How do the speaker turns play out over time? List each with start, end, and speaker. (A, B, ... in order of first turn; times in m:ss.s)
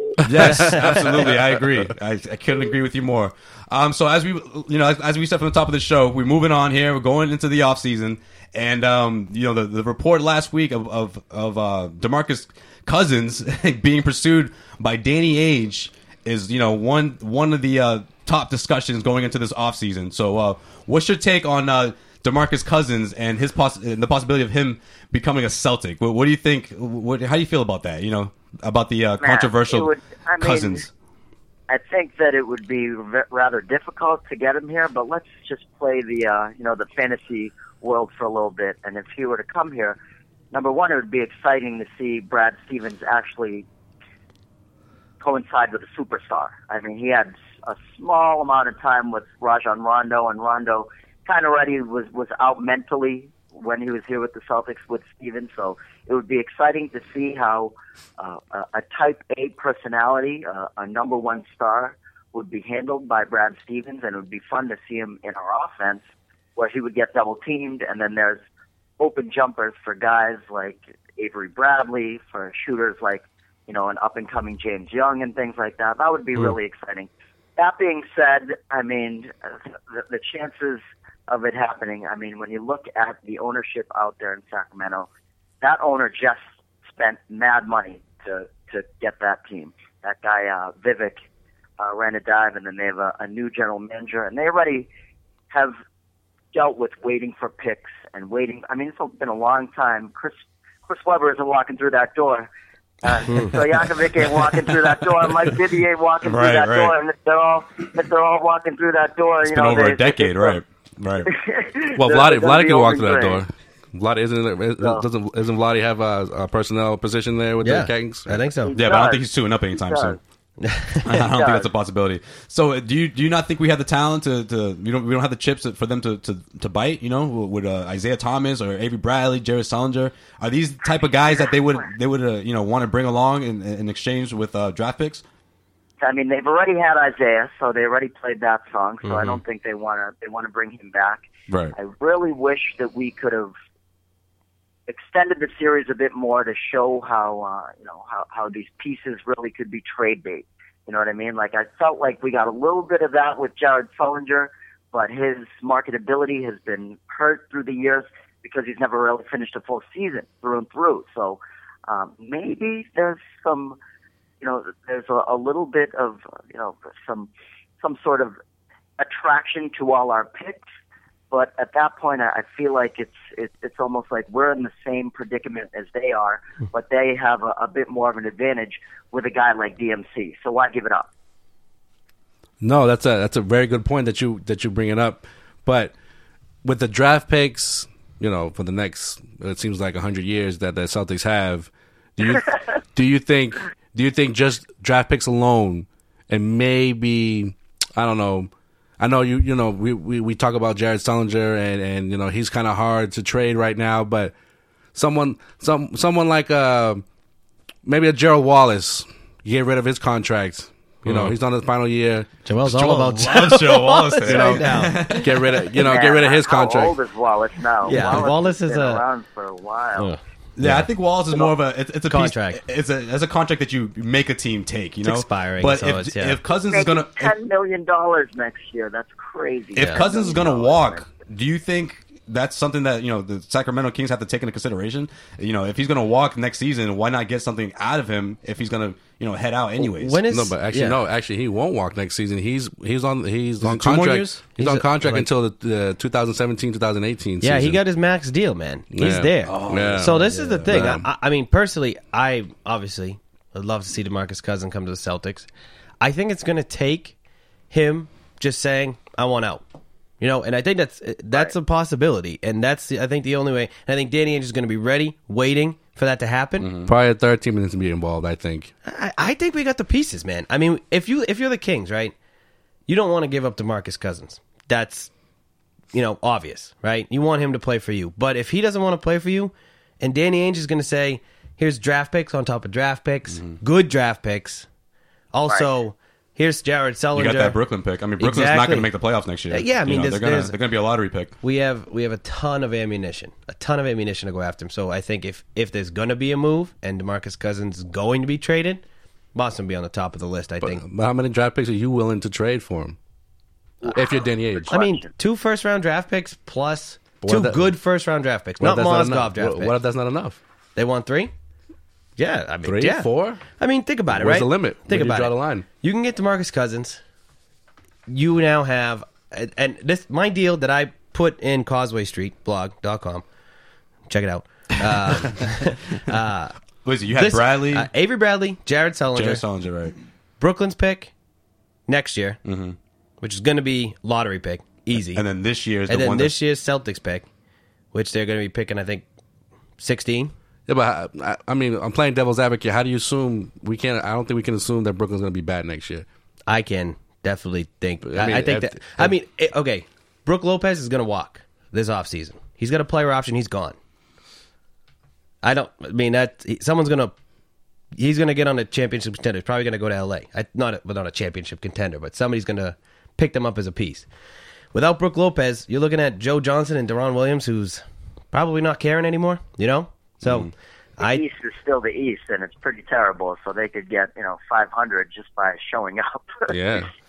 0:00.2-0:01.0 A
0:00.2-0:30.9 B
0:00.5-0:00.8 C
0:29.2-0:30.9 D
0:31.7-0:40.0 D
0:40.5-0:43.6 D
0:45.2-1:06.0 D
1:06.6-1:08.4 D
1:09.0-1:25.1 D
1:25.6-1:31.2 D
1:31.8-1:34.9 D
1:35.5-1:35.8 D
1:36.5-1:42.5 D
1:43.0-1:50.6 D
1:43.3-1:43.5 C
1:44.2-1:44.8 B
1:46.2-1:46.9 B
1:49.4-1:51.3 B
1:51.2-1:53.4 D
1:51.9-1:58.4 A
1:57.6-1:58.7 C
1:58.6-2:00.2 D
1:58.7-2:00.2 B
2:00.6-2:01.2 C
2:01.0-2:15.2 B
2:01.2-2:01.7 D
2:16.0-2:21.2 D
2:19.0-2:19.4 C
2:21.5-2:21.7 B
2:21.8-2:23.5 D
2:24.9-2:43.8 D
2:44.4-2:47.3 D
2:47.8-2:48.3 D
2:49.0-2:50.6 D
2:51.3-3:01.1 D
3:02.6-3:05.9 A
3:06.6-3:24.3 A
3:24.9-3:27.0 A
3:27.8-3:32.4 A
3:31.0-3:31.3 C
3:32.4-3:35.6 C
3:32.6-3:35.5 B
3:34.3-3:37.0 A
3:35.8-3:40.1 D
3:37.8-3:39.0 C
3:40.0-3:40.9 C
3:40.6-3:47.3 B
3:42.1-3:42.6 C
3:45.0-3:46.4 C
3:46.7-3:51.0 D
3:49.7-4:00.2 B
3:59.8-4:01.0 C
4:00.3-4:07.8 A
4:03.6-4:05.3 C
4:07.4-4:15.5 C
4:08.9-4:11.0 A
4:09.4-4:10.7 B
4:16.0-4:17.1 C
4:17.7-4:19.6 C
4:20.2-4:26.7 C
4:26.6-4:26.9 B
4:26.8-4:28.7 A
4:28.8-4:32.1 C
4:32.9-4:35.1 C
4:35.9-4:44.7 C
4:43.3-4:43.6 B
4:45.3-4:47.6 C
4:47.1-4:51.3 B
4:48.2-4:48.9 C
4:49.5-4:50.6 C
4:51.4-4:58.8 C
4:59.3-5:00.8 C
5:00.6-5:03.0 A
5:03.8-5:04.7 A
5:03.8-5:05.1 D
5:04.7-5:09.8 C
5:07.2-5:07.8 A
5:08.6-5:10.4 A
5:10.8-5:11.3 C
5:12.2-5:17.0 C
5:12.6-5:13.4 A
5:14.1-5:15.6 A
5:18.1-5:23.2 C
5:24.1-5:26.5 C
5:26.8-5:27.9 B
5:27.1-5:29.4 C
5:29.1-5:30.0 B
5:30.4-5:31.1 C
5:31.9-5:32.4 C
5:32.4-5:32.8 B
5:33.2-5:35.2 C
5:34.9-5:36.3 B
5:35.9-5:37.3 C
5:37.9-5:39.0 C
5:39.8-5:40.3 C
5:40.7-5:46.0 A
5:46.5-5:53.8 C
5:48.0-5:49.1 A
5:55.4-5:57.1 C
5:58.0-6:04.1 C
6:04.7-6:11.2 C
6:10.2-6:10.5 B
6:11.0-6:16.8 D
6:16.5-6:16.9 A